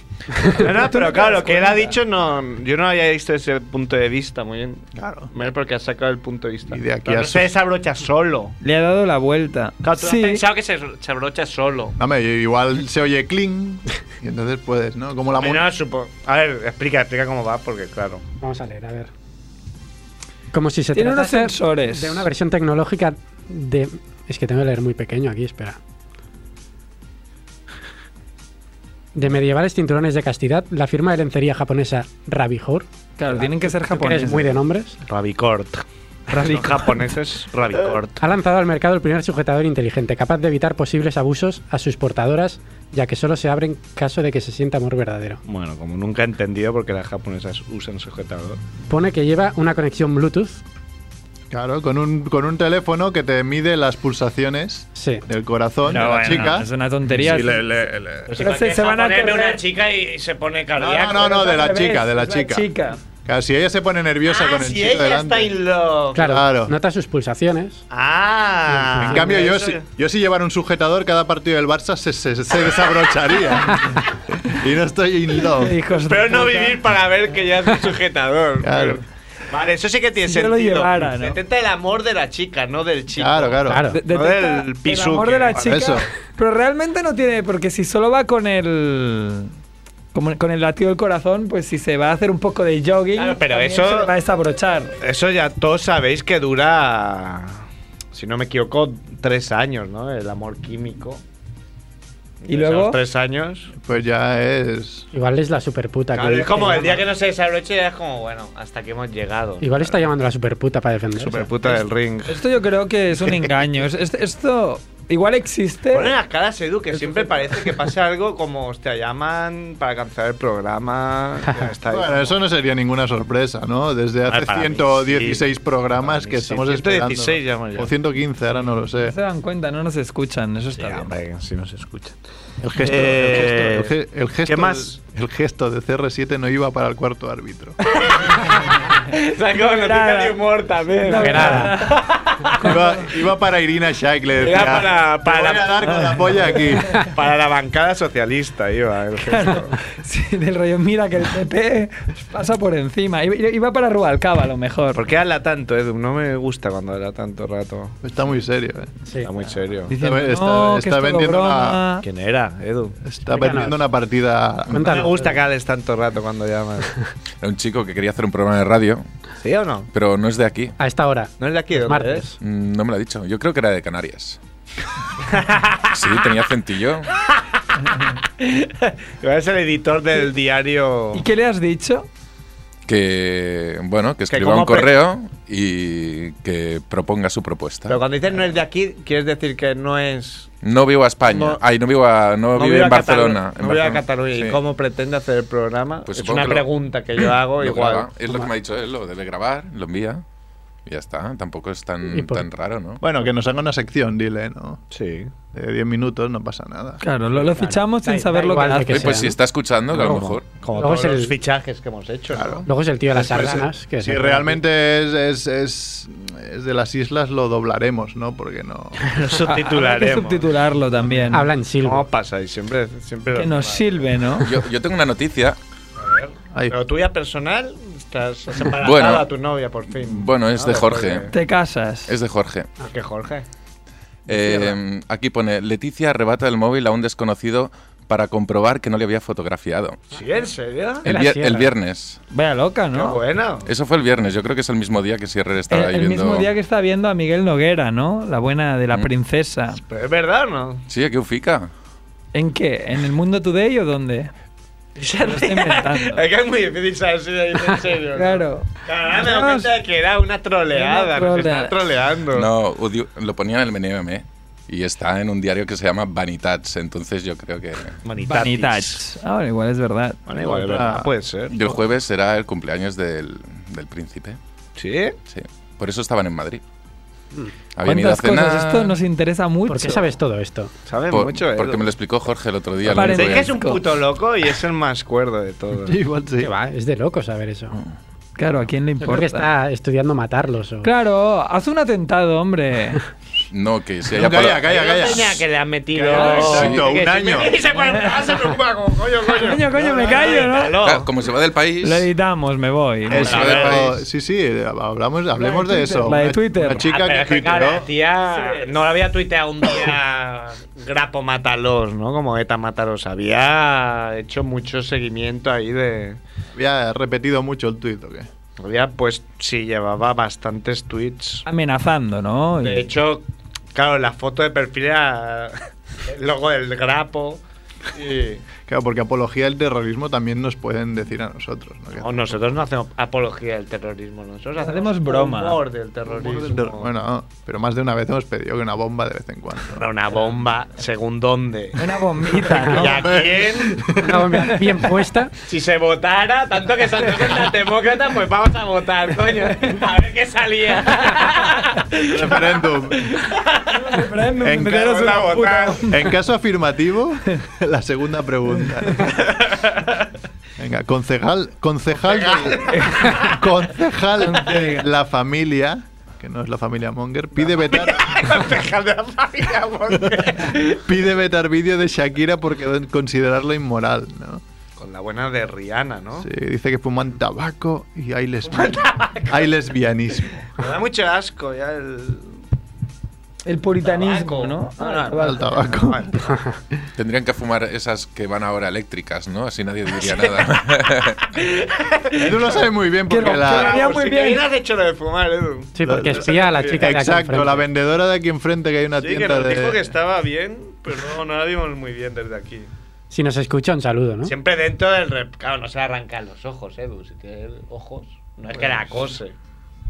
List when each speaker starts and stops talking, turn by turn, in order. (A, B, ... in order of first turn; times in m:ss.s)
0:00.4-0:08.6 A
0:00.7-0:01.9 B
0:05.0-0:05.3 C
0:06.7-0:07.5 C
0:08.6-0:10.4 B
0:09.8-0:12.0 A
0:12.0-0:15.7 C
0:15.4-0:18.2 A
0:18.4-0:19.1 D
0:20.5-0:25.8 D
0:20.9-0:22.3 B
0:29.1-0:32.9 D
0:33.2-0:34.6 B
0:33.8-0:35.0 D
0:35.0-0:38.2 A
0:36.3-0:37.0 B
0:38.2-0:45.4 D
0:45.4-0:48.6 A
0:48.9-0:50.6 D
0:51.5-0:58.3 C
0:55.0-0:55.2 D
0:55.8-0:57.6 B
0:58.3-1:01.6 A
0:58.4-0:59.6 B
1:00.8-1:05.6 C
1:01.2-1:03.0 B
1:04.3-1:06.4 A
1:06.2-1:07.8 D
1:06.2-1:06.8 C
1:07.9-1:09.9 A
1:09.0-1:15.8 C
1:09.1-1:09.4 D
1:15.6-1:16.8 B
1:16.0-1:25.6 A
1:18.6-1:19.0 C
1:20.2-1:21.4 B
1:23.2-1:23.9 C
1:23.7-1:24.0 D
1:23.9-1:29.5 B
1:25.6-1:26.1 C
1:30.1-1:34.9 B
1:33.1-1:34.1 A
1:35.0-1:41.2 A
1:42.4-1:43.7 A
1:42.5-1:43.0 B
1:43.8-1:45.1 C
1:45.1-1:47.0 D
1:46.1-1:50.0 A
1:49.6-1:51.5 D
1:51.2-1:52.4 A
1:52.3-1:56.1 B
1:55.9-2:02.4 A
1:57.0-1:57.7 B
2:01.9-2:09.2 C
2:04.3-2:05.5 A
2:06.0-2:07.9 A
2:08.9-2:11.1 B
2:10.7-2:12.2 A
2:12.6-2:17.8 C
2:12.8-2:15.0 A
2:17.9-2:22.8 A
2:18.5-2:18.9 B
2:19.6-2:20.4 B
2:21.0-2:23.1 B
2:21.2-2:21.8 D
2:22.6-2:27.0 C
2:24.4-2:29.8 A
2:25.9-2:27.1 B
2:29.2-2:35.0 B
2:34.9-2:38.0 A
2:38.0-2:38.9 C
2:39.2-2:39.9 A
2:39.9-2:42.0 B
2:40.0-2:41.8 C
2:42.0-2:43.0 A
2:43.0-2:45.1 C
2:43.3-2:43.8 D
2:44.7-2:45.4 D
2:44.8-2:46.9 A
2:47.4-2:49.0 E
2:49.4-2:49.9 A
2:49.9-2:50.8 E
2:50.8-2:52.4 D
2:51.4-2:52.3 A
2:52.4-2:54.4 E
2:55.2-2:56.0 A
2:55.9-2:57.1 E
2:57.2-2:57.6 A
2:58.2-3:01.3 A
3:01.1-3:02.1 B
3:02.9-3:08.0 E
3:04.3-3:04.9 A
3:07.9-3:10.5 A
3:10.6-3:14.0 E
3:11.3-3:11.6 A
3:12.5-3:18.1 A
3:16.1-3:16.7 E
3:17.6-3:20.2 E
3:20.9-3:23.0 E
3:22.1-3:22.4 D
3:23.0-3:24.8 C
3:24.9-3:25.3 A
3:25.5-3:27.0 C
3:27.0-3:29.2 B
3:27.3-3:27.8 A
3:28.0-3:29.4 D
3:28.9-3:30.4 E
3:30.0-3:32.7 A
3:30.0-3:31.3 D
3:32.3-3:39.0 C
3:32.7-3:34.6 D
3:39.0-3:40.5 A
3:39.4-3:41.5 B
3:41.3-3:42.1 D
3:41.8-3:44.1 A
3:43.3-3:44.6 B
3:44.4-3:45.6 E
3:46.0-3:51.4 A
3:48.7-3:49.3 E
3:50.0-3:51.3 E
3:51.3-3:52.1 B
3:52.1-3:52.7 E
3:52.8-3:53.4 A
3:54.3-4:00.0 E
4:00.1-4:01.0 A
4:01.0-4:02.2 E
4:01.0-4:01.7 D
4:02.3-4:03.2 B
4:02.9-4:03.7 A
4:03.7-4:06.5 E
4:05.7-4:09.8 B
4:09.7-4:10.8 A
4:10.9-4:11.7 E
4:12.3-4:14.3 B
4:15.0-4:22.5 A
4:15.2-4:16.2 B
4:18.1-4:19.7 B
4:20.7-4:21.7 B
4:22.3-4:28.0 E
4:28.0-4:29.0 A
4:28.2-4:30.2 B
4:30.3-4:31.6 A
4:30.6-4:31.1 C
4:31.5-4:34.4 E
4:34.8-4:35.2 A
4:35.3-4:36.6 E
4:37.7-4:39.0 E
4:37.8-4:40.1 B
4:39.7-4:40.7 D
4:40.9-4:41.9 A
4:41.1-4:43.6 E
4:42.8-4:43.8 B
4:43.0-4:46.0 A
4:45.8-4:46.5 C
4:46.4-4:47.7 D
4:48.4-4:49.5 B
4:49.0-4:50.9 D
4:50.8-4:53.0 B
4:53.5-4:54.7 E
4:54.1-4:55.4 C
4:54.6-5:01.1 A
4:56.0-4:57.5 C
4:56.1-4:56.7 B
4:56.5-4:56.8 E
4:57.7-4:58.4 B
4:59.3-5:00.8 B
5:00.8-5:02.1 E
5:01.8-5:03.4 B
5:03.1-5:04.0 E
5:03.1-5:03.9 A
5:03.1-5:07.9 C
5:05.4-5:06.8 B
5:06.8-5:16.2 A
5:08.3-5:08.7 B
5:16.6-5:18.3 C
5:18.6-5:21.4 A
5:21.5-5:22.9 B
5:22.6-5:27.4 A
5:27.9-5:28.4 A
5:28.7-5:32.3 C
5:32.0-5:36.9 A
5:34.6-5:35.6 B
5:36.2-5:39.9 C
5:39.7-5:44.0 A
5:41.8-5:43.2 B
5:43.0-5:44.3 C
5:44.0-5:45.3 D
5:45.4-5:55.9 A
5:52.0-5:53.1 C
5:53.7-5:56.0 B
5:54.4-5:54.8 C
5:55.9-5:59.2 C
5:59.2-5:59.9 A
6:00.6-6:08.4 C
6:02.0-6:03.4 A
6:02.8-6:03.3 B
6:04.4-6:04.8 B
6:07.4-6:10.8 A
6:10.0-6:14.4 C
6:14.8-6:16.3 A
6:16.2-6:20.5 C
6:18.5-6:19.5 A
6:20.5-6:22.4 A
6:23.4-6:25.6 B
6:23.8-6:26.2 A
6:25.2-6:26.1 C
6:27.0-6:31.3 E
6:30.0-6:30.4 A
6:31.3-6:32.7 A
6:32.2-6:33.8 C
6:33.1-6:34.4 B
6:33.2-6:37.0 A
6:35.7-6:37.6 D
6:35.8-6:39.9 C
6:39.0-6:42.7 A
6:43.1-6:44.3 D
6:44.2-6:49.3 A